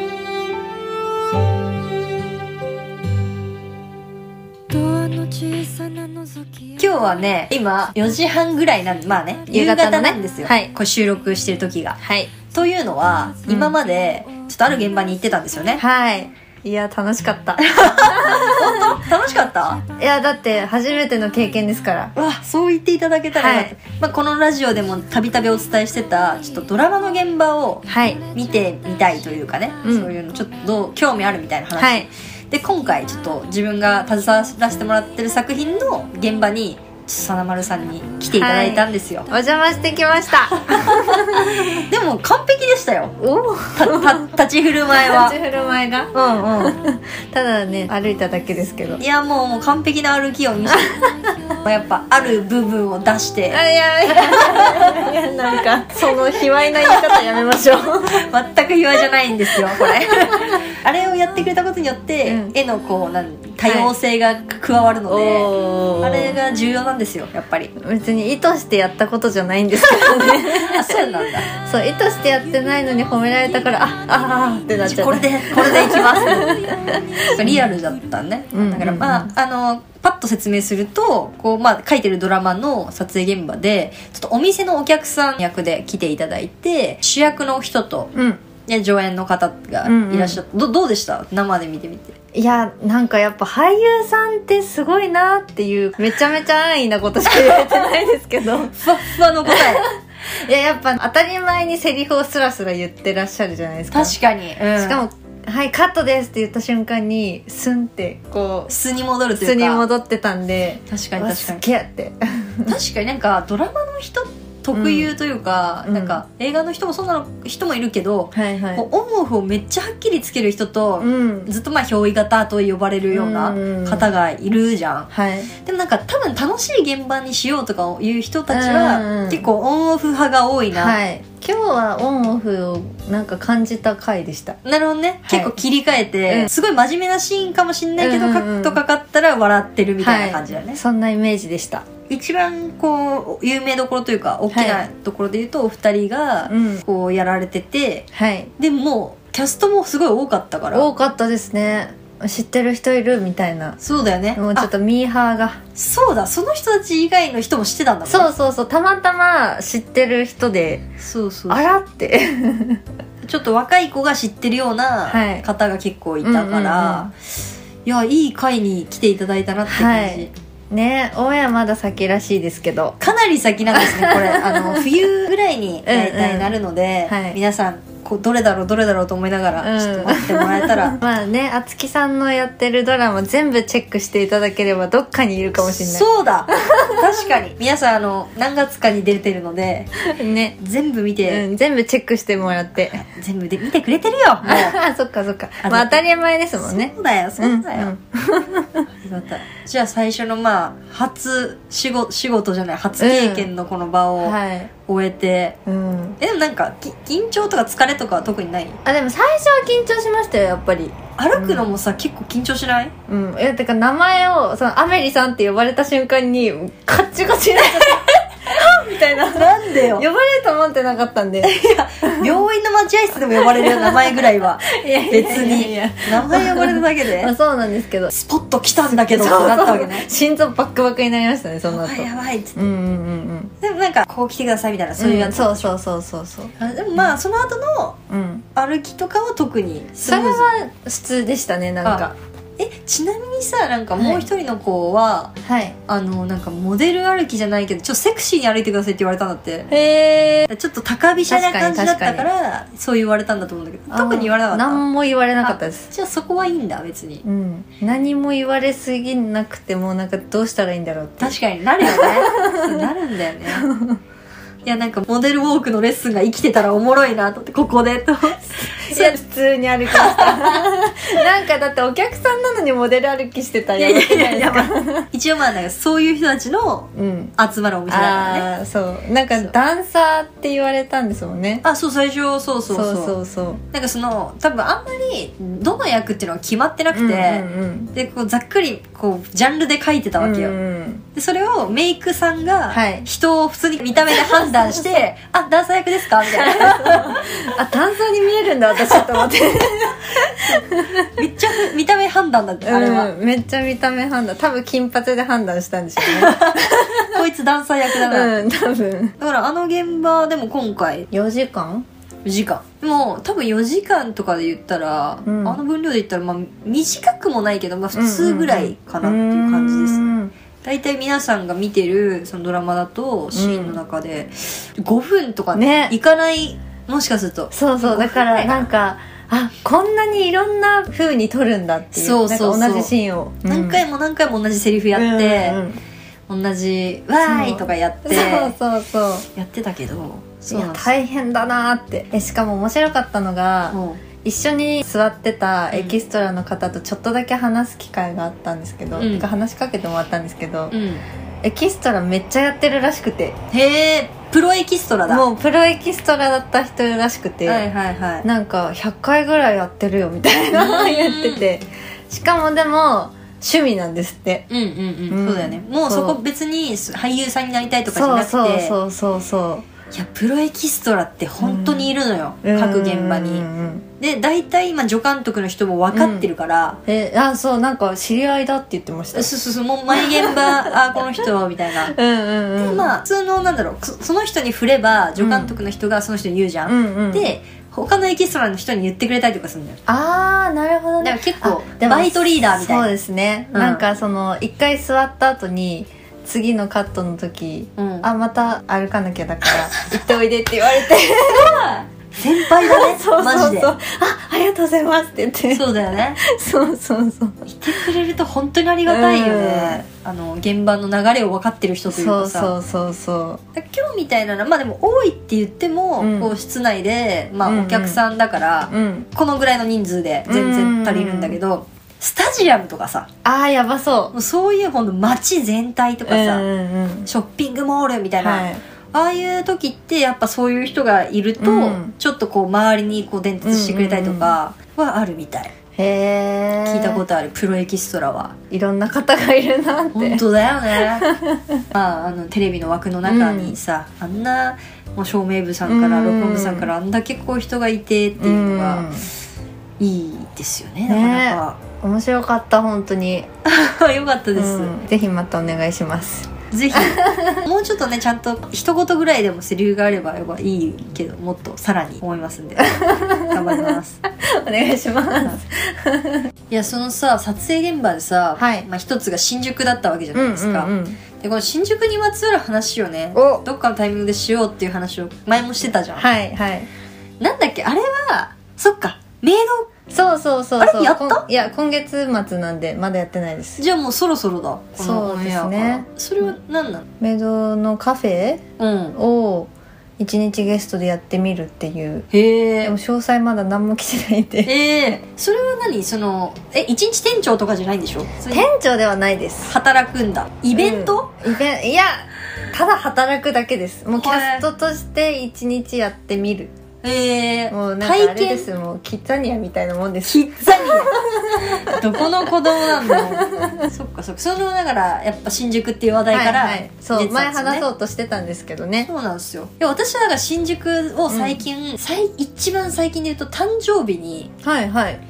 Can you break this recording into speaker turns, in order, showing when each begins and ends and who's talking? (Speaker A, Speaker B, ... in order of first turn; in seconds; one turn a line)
Speaker A: 4.7-5.1
Speaker A: 6.7-15.8
Speaker B: 9.5-10.7
Speaker B: 12.0-12.3
Speaker B: 13.5-13.8
Speaker B: 15.8-18.9
Speaker A: 17.7-19.8
Speaker B: 20.0-22.1
Speaker A: 22.1-39.3
Speaker B: 23.3-23.7
Speaker B: 27.9-28.2
Speaker B: 29.8-30.1
Speaker B: 31.8-32.1
Speaker B: 38.4-41.8
Speaker A: 40.5-43.1
Speaker B: 43.2-44.3
Speaker A: 43.8-45.4
Speaker B: 44.9-49.0
Speaker A: 46.1-46.8
Speaker A: 49.0-53.6
Speaker B: 50.8-51.1
Speaker B: 53.5-58.2
Speaker A: 54.1-54.9
Speaker A: 56.9-57.2
Speaker A: 58.1-65.5
Speaker B: 59.8-60.5
Speaker B: 62.2-62.5
Speaker B: 63.6-63.9
Speaker B: 65.1-66.4
Speaker A: 66.0-67.7
Speaker B: 67.8-77.7
Speaker A: 69.8-71.5
Speaker A: 74.8-76.5
Speaker A: 77.3-88.1
Speaker B: 78.5-79.3
Speaker B: 88.1-88.4
Speaker A: 88.7-92.1
Speaker B: 89.8-90.4
Speaker B: 92.3-98.9
Speaker A: 97.3-97.9
Speaker A: 98.7-99.9
Speaker B: 99.4-104.2
Speaker A: 103.9-105.0
Speaker B: 104.7-108.7
Speaker A: 108.7-109.8
Speaker B: 109.4-112.8
Speaker A: 110.9-111.6
Speaker A: 112.7-125.1
Speaker B: 114.7-115.1
Speaker B: 115.8-116.2
Speaker B: 118.3-118.8
Speaker B: 121.0-121.5
Speaker B: 123.1-124.1
Speaker B: 125.1-125.5
Speaker A: 125.6-130.9
Speaker B: 128.5-129.4
Speaker B: 130.7-134.6
Speaker A: 134.6-140.8
Speaker B: 135.3-135.5
Speaker B: 136.2-136.5
Speaker B: 138.0-138.8
Speaker B: 140.0-141.8
Speaker A: 142.1-150.9
Speaker B: 144.5-144.8
Speaker B: 146.5-146.8
Speaker B: 148.1-148.5
Speaker B: 150.7-153.8
Speaker A: 153.8-154.7
Speaker B: 154.3-155.6
Speaker A: 155.8-158.3
Speaker B: 158.1-160.8
Speaker A: 161.0-161.7
Speaker B: 161.5-162.8
Speaker A: 163.2-167.1
Speaker B: 165.1-165.5
Speaker B: 166.2-167.1
Speaker A: 167.8-170.3
Speaker B: 169.7-173.0
Speaker A: 173.0-181.0
Speaker B: 173.7-174.9
Speaker B: 175.8-176.6
Speaker B: 177.1-177.4
Speaker B: 179.6-187.1
Speaker A: 185.6-189.9
Speaker B: 190.1-190.6
Speaker A: 190.6-191.4
Speaker B: 191.3-192.9
Speaker A: 192.8-194.8
Speaker B: 194.4-198.8
Speaker A: 195.6-196.0
Speaker A: 196.5-197.9
Speaker A: 199.0-205.6
Speaker B: 203.0-203.5
Speaker B: 204.2-204.7
Speaker B: 205.7-206.2
Speaker A: 206.2-208.8
Speaker B: 208.8-211.7
Speaker A: 211.2-212.9
Speaker B: 213.1-222.4
Speaker A: 219.2-220.1
Speaker A: 221.5-227.3
Speaker B: 223.4-228.1
Speaker A: 228.1-230.1
Speaker B: 228.8-233.5
Speaker A: 231.7-232.6
Speaker A: 233.6-235.7
Speaker B: 235.0-236.5
Speaker A: 236.6-238.0
Speaker B: 238.1-238.4
Speaker A: 238.5-240.5
Speaker B: 240.0-242.2
Speaker A: 242.6-245.3
Speaker B: 243.9-244.2
Speaker B: 245.4-245.8
Speaker A: 245.9-249.7
Speaker B: 249.7-250.5
Speaker A: 250.5-254.8
Speaker B: 251.2-252.3
Speaker B: 253.9-255.9
Speaker A: 255.4-257.2
Speaker B: 257.2-262.8
Speaker A: 261.2-263.7
Speaker B: 263.5-264.0
Speaker A: 264.6-269.2
Speaker B: 268.6-275.1
Speaker A: 269.9-270.6
Speaker A: 273.8-278.5
Speaker B: 276.9-277.3
Speaker B: 277.9-281.6
Speaker A: 281.6-283.1
Speaker B: 282.7-283.6
Speaker A: 283.7-290.5
Speaker B: 286.9-287.9
Speaker B: 290.2-291.0
Speaker A: 291.1-297.5
Speaker B: 292.7-293.1
Speaker B: 296.4-301.1
Speaker A: 301.1-303.1
Speaker B: 302.6-307.2
Speaker A: 306.0-308.3
Speaker B: 308.0-309.1
Speaker A: 309.2-311.1
Speaker B: 311.1-311.9
Speaker A: 312.2-328.6
Speaker B: 315.2-315.6
Speaker B: 317.9-320.3
Speaker B: 323.3-323.8
Speaker B: 325.5-325.9
Speaker B: 327.5-333.8
Speaker A: 331.9-332.9
Speaker A: 333.4-335.6
Speaker B: 334.9-335.8
Speaker A: 336.3-338.5
Speaker B: 337.2-339.3
Speaker A: 339.3-340.9
Speaker B: 340.4-350.7
Speaker A: 343.7-344.0
Speaker A: 345.7-346.0
Speaker A: 348.9-349.3
Speaker A: 350.7-351.0
Speaker B: 351.4-353.4
Speaker A: 353.5-355.3
Speaker B: 355.1-357.6
Speaker A: 357.4-358.3
Speaker B: 358.2-364.5
Speaker A: 360.5-361.5
Speaker A: 364.5-368.7
Speaker B: 365.1-366.2
Speaker B: 367.9-369.7
Speaker A: 369.9-373.4
Speaker B: 371.4-371.9
Speaker B: 372.4-373.9
Speaker A: 374.0-376.8
Speaker B: 375.9-376.3
Speaker B: 376.9-379.3
Speaker A: 379.1-381.9
Speaker B: 380.0-380.7
Speaker B: 381.9-382.9
Speaker A: 382.6-389.8
Speaker B: 385.2-385.6
Speaker B: 386.6-387.3
Speaker B: 389.9-401.7
Speaker A: 391.0-392.9
Speaker A: 393.5-393.8
Speaker A: 397.8-398.1
Speaker A: 401.2-403.7
Speaker B: 402.4-408.0
Speaker A: 405.5-406.2
Speaker A: 407.4-412.5
Speaker B: 408.9-409.8
Speaker B: 411.9-413.4
Speaker A: 413.5-423.1
Speaker B: 416.0-416.3
Speaker B: 417.4-418.0
Speaker B: 418.7-419.1
Speaker B: 420.2-421.4
Speaker B: 423.2-424.1
Speaker A: 424.1-426.4
Speaker B: 426.1-427.1
Speaker A: 427.1-435.5
Speaker B: 428.2-428.6
Speaker B: 431.4-431.9
Speaker B: 433.4-434.4
Speaker B: 435.8-437.0
Speaker A: 436.6-438.3
Speaker B: 438.5-440.2
Speaker A: 439.9-441.1
Speaker B: 441.0-441.6
Speaker A: 441.7-448.9
Speaker B: 443.0-443.6
Speaker B: 445.6-446.7
Speaker B: 448.2-449.1
Speaker A: 449.8-451.6
Speaker B: 450.9-453.3
Speaker A: 453.4-454.7
Speaker B: 454.4-457.4
Speaker A: 456.5-464.0
Speaker B: 462.7-466.3
Speaker A: 466.5-476.1
Speaker B: 468.4-468.7
Speaker B: 470.1-471.0
Speaker B: 473.1-473.4
Speaker B: 476.0-476.7
Speaker A: 477.2-479.7
Speaker B: 479.9-483.6
Speaker A: 480.6-481.2
Speaker A: 483.6-486.9
Speaker B: 484.8-486.3
Speaker B: 487.0-488.4
Speaker A: 488.6-489.0
Speaker B: 488.9-492.1
Speaker A: 492.1-492.7
Speaker B: 492.6-494.5
Speaker A: 494.4-498.5
Speaker B: 498.3-499.5
Speaker A: 499.4-501.1
Speaker B: 500.5-506.5
Speaker A: 503.9-504.4
Speaker A: 506.8-508.5
Speaker B: 507.5-512.0
Speaker A: 510.0-517.6
Speaker B: 512.6-513.7
Speaker B: 516.1-518.9
Speaker A: 518.8-524.3
Speaker B: 521.1-521.4
Speaker B: 524.4-525.0